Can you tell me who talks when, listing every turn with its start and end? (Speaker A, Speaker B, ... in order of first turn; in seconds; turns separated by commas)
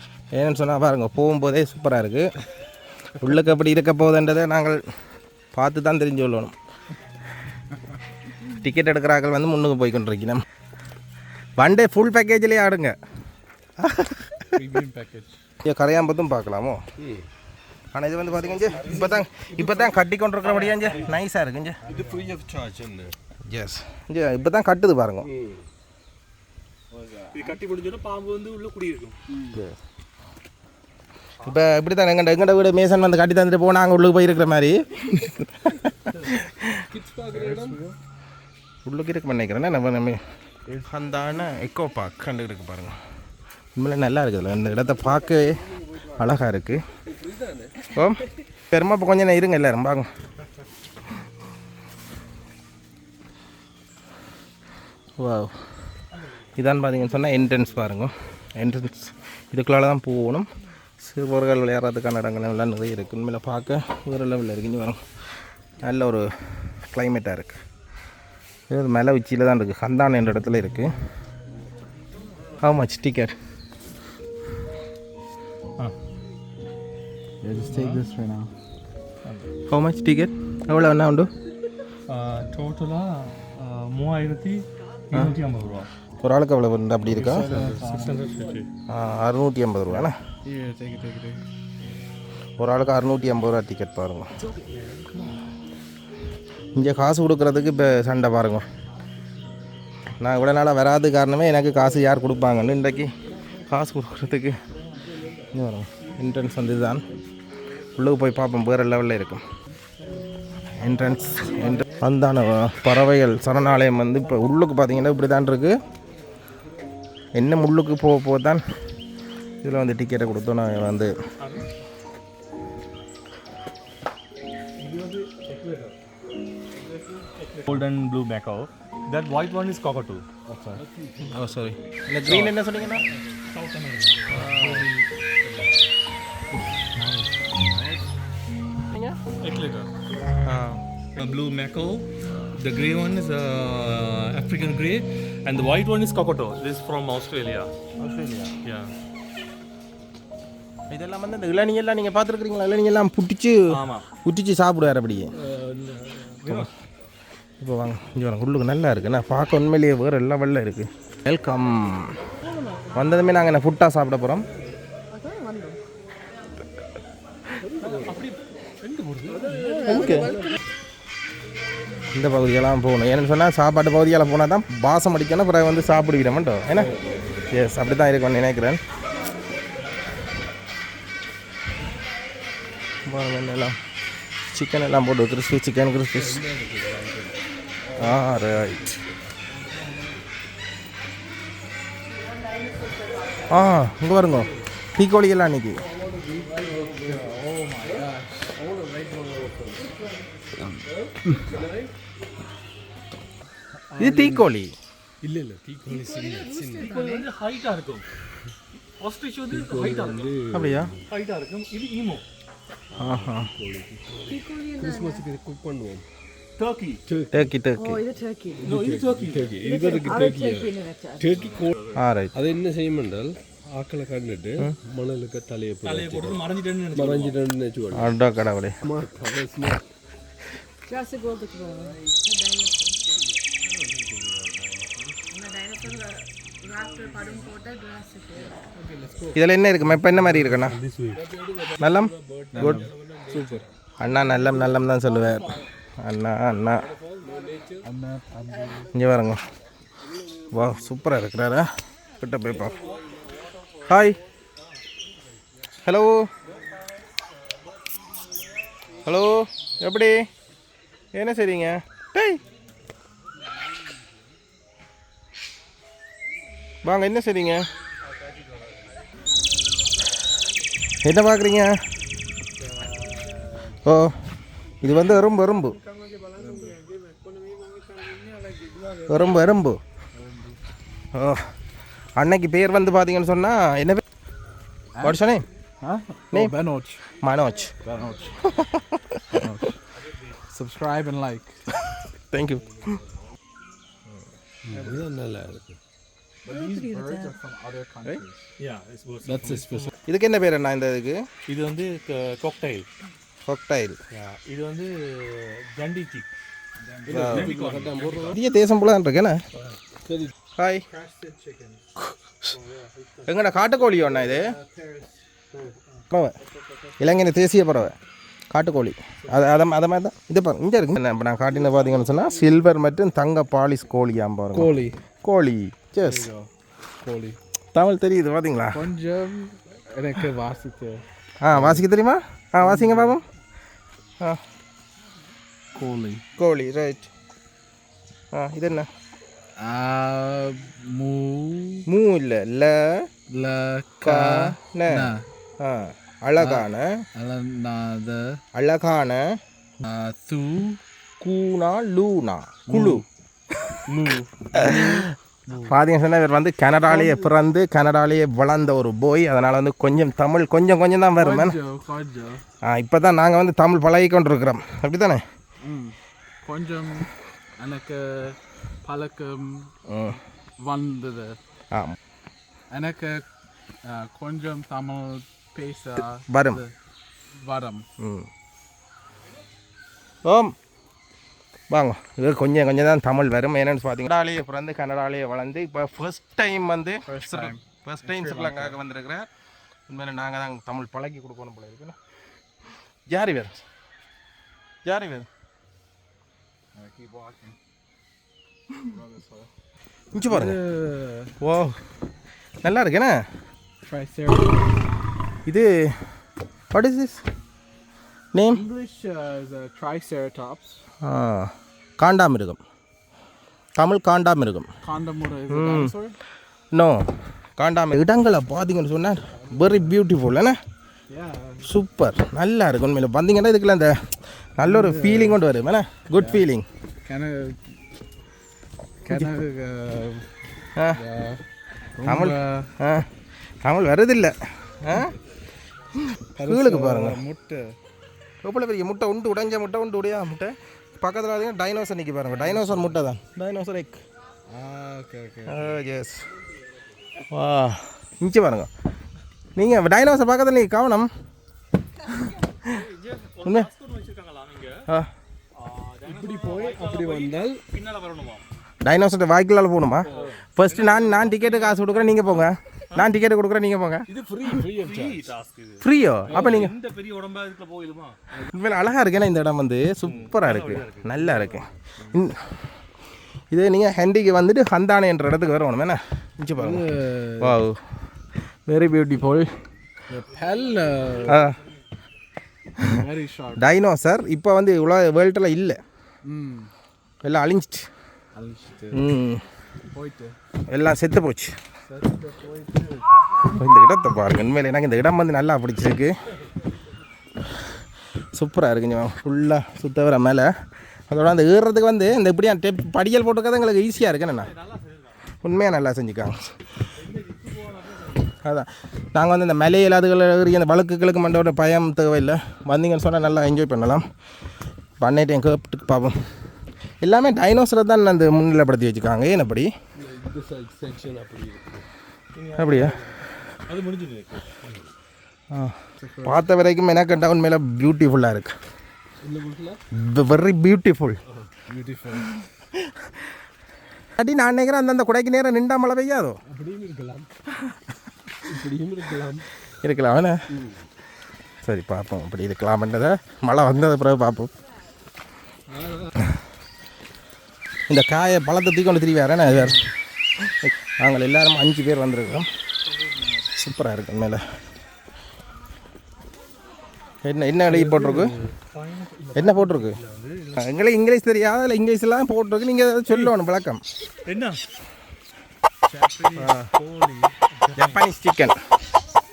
Speaker A: 0.3-2.3, Speaker A: 3.2-4.8, Speaker A: 5.5-6.5, Speaker A: 8.5-10.4, Speaker A: 11.6-13.0, Speaker A: 13.8-14.5, Speaker B: 14.5-15.4, Speaker A: 15.6-16.8, Speaker C: 17.0-17.3, Speaker A: 17.9-21.8, Speaker C: 18.4-20.0, Speaker D: 20.4-21.1, Speaker B: 21.9-22.3, Speaker C: 21.9-23.1, Speaker A: 23.5-25.3, Speaker C: 25.2-25.6, Speaker B: 26.9-27.6, Speaker D: 27.3-29.2, Speaker C: 29.3-29.7, Speaker A: 31.4-36.8, Speaker C: 36.9-37.8, Speaker B: 37.3-38.0, Speaker A: 38.9-40.2, Speaker B: 40.7-41.2, Speaker A: 40.9-43.0, Speaker A: 43.8-45.6, Speaker C: 44.9-45.7, Speaker A: 46.2-46.8, Speaker C: 47.0-47.9, Speaker A: 47.9-50.1, Speaker A: 55.2-55.5, Speaker A: 56.6-60.5, Speaker C: 57.4-57.9, Speaker A: 61.0-65.0, Speaker A: 65.8-67.6, Speaker A: 68.7-70.9, Speaker A: 72.6-73.3, Speaker B: 77.4-78.5, Speaker D: 77.7-78.0, Speaker D: 79.2-79.5, Speaker A: 79.7-81.3, Speaker D: 82.1-85.9, Speaker A: 86.2-87.6, Speaker D: 87.2-88.7, Speaker B: 87.2-88.3, Speaker A: 88.9-90.2, Speaker B: 90.5-91.4, Speaker A: 92.6-94.3, Speaker D: 94.7-95.4, Speaker A: 96.8-98.7, Speaker A: 100.2-103.1, Speaker A: 103.7-104.6, Speaker A: 105.5-107.1, Speaker A: 108.0-109.5, Speaker A: 110.8-115.8, Speaker A: 117.3-118.6, Speaker A: 119.6-121.1, Speaker D: 121.4-121.7, Speaker D: 124.8-126.0, Speaker D: 127.3-130.3, Speaker B: 130.5-131.2, Speaker C: 130.7-131.7, Speaker A: 131.3-133.0, Speaker D: 132.3-132.6, Speaker D: 133.4-135.7, Speaker A: 134.3-134.9, Speaker A: 138.9-139.2, Speaker D: 139.4-139.9, Speaker A: 140.4-140.8, Speaker D: 141.2-147.7, Speaker A: 148.0-148.6, Speaker D: 148.7-148.9, Speaker A: 150.9-155.3, Speaker D: 153.7-154.1, Speaker C: 155.3-156.5, Speaker D: 156.4-156.7, Speaker A: 157.6-162.2, Speaker E: 162.6-163.1, Speaker A: 162.9-164.5, Speaker E: 165.1-165.8, Speaker C: 167.6-168.2, Speaker D: 167.8-169.6, Speaker C: 169.3-170.6, Speaker E: 169.4-170.6, Speaker A: 169.9-170.3, Speaker A: 172.1-176.9, Speaker C: 176.7-177.5, Speaker A: 177.5-178.8, Speaker A: 183.1-183.8, Speaker A: 184.5-186.4, Speaker C: 186.2-187.4, Speaker A: 188.0-188.9, Speaker A: 193.5-195.8, Speaker C: 195.9-200.0, Speaker B: 196.3-198.5, Speaker E: 199.9-200.2, Speaker C: 200.7-201.9, Speaker C: 204.0-204.3, Speaker A: 204.0-204.7, Speaker C: 205.2-206.9, Speaker E: 205.9-207.3, Speaker D: 206.8-208.1, Speaker D: 209.0-210.3, Speaker C: 209.5-211.1, Speaker A: 210.5-210.9, Speaker D: 211.1-212.2, Speaker C: 212.9-216.1, Speaker A: 213.0-213.5, Speaker E: 214.3-215.3, Speaker D: 216.6-217.0, Speaker C: 217.1-217.5, Speaker A: 217.3-218.0, Speaker E: 217.8-218.7, Speaker C: 218.6-221.8, Speaker D: 218.6-219.6, Speaker E: 219.6-221.4, Speaker D: 221.3-222.0, Speaker A: 222.0-222.3, Speaker C: 222.3-228.1, Speaker D: 225.8-227.4, Speaker A: 227.9-228.8, Speaker C: 228.8-229.8, Speaker E: 230.9-233.1, Speaker C: 233.4-235.2, Speaker E: 235.3-238.7, Speaker C: 238.8-239.3, Speaker A: 239.3-240.8, Speaker D: 240.4-241.2, Speaker C: 241.1-243.7, Speaker A: 241.8-242.8, Speaker B: 242.5-243.7, Speaker A: 244.0-246.9, Speaker C: 246.7-247.9, Speaker B: 247.8-248.9, Speaker A: 248.9-249.4, Speaker C: 250.0-251.1, Speaker A: 250.5-252.8, Speaker C: 252.6-253.2, Speaker A: 253.9-254.2, Speaker A: 255.8-256.3, Speaker A: 259.0-260.3, Speaker A: 261.1-262.4, Speaker A: 266.8-267.7, Speaker A: 271.0-271.8, Speaker A: 273.8-274.1, Speaker A: 274.8-275.8, Speaker B: 276.4-276.7, Speaker A: 279.1-279.8, Speaker B: 280.1-280.6, Speaker A: 281.1-281.5, Speaker A: 282.2-284.0, Speaker B: 285.0-285.3, Speaker A: 285.0-285.4, Speaker B: 285.8-287.1, Speaker A: 287.2-287.7, Speaker B: 287.8-288.4, Speaker A: 288.4-289.5, Speaker B: 289.3-289.7, Speaker B: 290.5-291.6, Speaker A: 291.9-293.0, Speaker C: 294.6-295.8, Speaker B: 296.5-298.4, Speaker E: 296.5-297.4, Speaker D: 298.6-299.9, Speaker B: 299.3-299.9, Speaker A: 300.1-301.3, Speaker D: 301.5-302.9, Speaker A: 303.5-304.0, Speaker D: 304.1-306.3, Speaker B: 306.8-307.5, Speaker C: 307.1-308.4, Speaker A: 307.1-307.6, Speaker D: 307.2-308.4, Speaker A: 308.3-309.4, Speaker C: 310.1-310.3, Speaker A: 310.6-310.8, Speaker B: 310.9-311.8, Speaker D: 312.5-313.3, Speaker A: 313.3-314.5, Speaker B: 313.8-315.3, Speaker A: 316.1-316.4, Speaker A: 317.0-318.0, Speaker A: 318.5-326.3, Speaker B: 324.5-325.0, Speaker B: 326.0-326.5, Speaker B: 327.0-327.4, Speaker A: 327.7-328.8, Speaker B: 328.7-331.8, Speaker A: 331.4-333.2, Speaker B: 332.6-333.2, Speaker B: 335.8-336.2, Speaker A: 336.4-337.1, Speaker A: 338.3-338.9, Speaker B: 339.6-341.9, Speaker A: 341.9-343.1, Speaker B: 343.3-345.2, Speaker A: 344.0-347.1, Speaker B: 346.4-348.4, Speaker A: 348.5-349.4, Speaker B: 349.8-350.8, Speaker A: 351.2-353.0, Speaker B: 352.7-353.0, Speaker B: 354.0-355.8, Speaker A: 354.6-355.0, Speaker A: 355.7-361.6, Speaker B: 356.9-357.3, Speaker B: 361.2-362.4, Speaker A: 362.6-365.2, Speaker B: 365.6-369.7, Speaker A: 369.9-370.2, Speaker B: 370.6-371.4, Speaker A: 371.7-372.0, Speaker B: 372.7-373.2, Speaker B: 373.8-376.7, Speaker A: 376.0-376.6, Speaker B: 377.4-377.9, Speaker A: 378.0-378.3, Speaker A: 380.2-380.6, Speaker A: 381.7-389.3, Speaker B: 387.1-387.6, Speaker D: 388.1-388.7, Speaker A: 389.9-392.0, Speaker A: 393.1-393.6, Speaker A: 394.9-395.3, Speaker B: 396.8-397.6, Speaker B: 398.8-399.5, Speaker A: 400.1-400.6, Speaker B: 400.3-401.4, Speaker A: 401.4-401.8, Speaker A: 402.6-403.3, Speaker B: 403.8-404.7, Speaker A: 405.5-406.0, Speaker A: 406.7-407.2, Speaker A: 408.3-408.6, Speaker B: 408.5-410.8, Speaker A: 411.0-412.6, Speaker A: 413.8-414.7, Speaker B: 414.8-416.2, Speaker A: 415.5-415.9, Speaker A: 416.7-420.6, Speaker B: 419.3-419.9, Speaker B: 421.1-421.7, Speaker A: 421.6-426.7, Speaker B: 424.6-425.4, Speaker B: 426.1-426.4, Speaker B: 427.1-427.7, Speaker B: 429.0-430.3, Speaker B: 430.9-431.4, Speaker B: 432.0-432.7, Speaker A: 432.1-433.1, Speaker A: 433.6-435.1, Speaker A: 436.0-437.2, Speaker B: 436.4-437.8, Speaker A: 438.4-444.0, Speaker B: 442.3-443.0, Speaker B: 444.5-445.8, Speaker A: 445.5-446.3, Speaker A: 447.3-448.7, Speaker A: 449.6-451.1, Speaker D: 452.6-454.8, Speaker A: 453.4-453.7, Speaker D: 455.6-458.4, Speaker C: 456.1-457.6, Speaker A: 458.8-464.1, Speaker C: 460.0-460.3, Speaker D: 460.1-462.4, Speaker C: 464.1-465.3, Speaker D: 464.6-468.4, Speaker A: 465.8-466.8, Speaker C: 466.3-466.7, Speaker A: 468.5-472.5, Speaker D: 470.0-471.7, Speaker A: 473.5-476.9, Speaker B: 476.6-477.6, Speaker A: 477.4-477.8, Speaker A: 478.4-479.5, Speaker B: 480.1-481.5, Speaker A: 481.3-481.6, Speaker A: 482.8-483.0, Speaker B: 482.9-483.7, Speaker A: 483.6-485.8, Speaker B: 486.2-486.7, Speaker A: 487.2-487.9, Speaker B: 488.4-489.1, Speaker A: 488.9-489.4, Speaker B: 489.9-490.4, Speaker A: 490.7-491.6, Speaker B: 491.9-493.1, Speaker A: 493.5-496.2, Speaker A: 498.3-500.5, Speaker A: 501.1-504.5, Speaker D: 504.3-505.4, Speaker A: 505.4-506.5, Speaker D: 507.0-508.4, Speaker A: 508.4-514.1, Speaker A: 515.0-516.2, Speaker A: 517.0-519.7, Speaker C: 520.0-521.9, Speaker D: 522.4-524.5, Speaker A: 522.6-523.0, Speaker A: 525.5-528.6, Speaker B: 526.0-526.4, Speaker C: 529.2-529.8, Speaker A: 529.9-531.2, Speaker B: 531.7-532.4, Speaker A: 532.8-533.3, Speaker A: 534.2-536.4, Speaker C: 536.5-537.3, Speaker C: 538.5-539.5, Speaker A: 539.8-540.4, Speaker C: 540.5-540.8, Speaker A: 541.6-544.5, Speaker C: 545.7-546.1, Speaker A: 547.9-549.8, Speaker A: 550.4-552.5, Speaker B: 552.9-553.5, Speaker A: 553.6-554.4, Speaker A: 557.2-558.3, Speaker D: 558.1-560.6, Speaker A: 559.4-560.0, Speaker A: 560.5-563.8, Speaker D: 564.2-564.6, Speaker B: 565.9-567.1, Speaker A: 566.4-566.7, Speaker D: 566.8-568.0, Speaker A: 567.8-568.6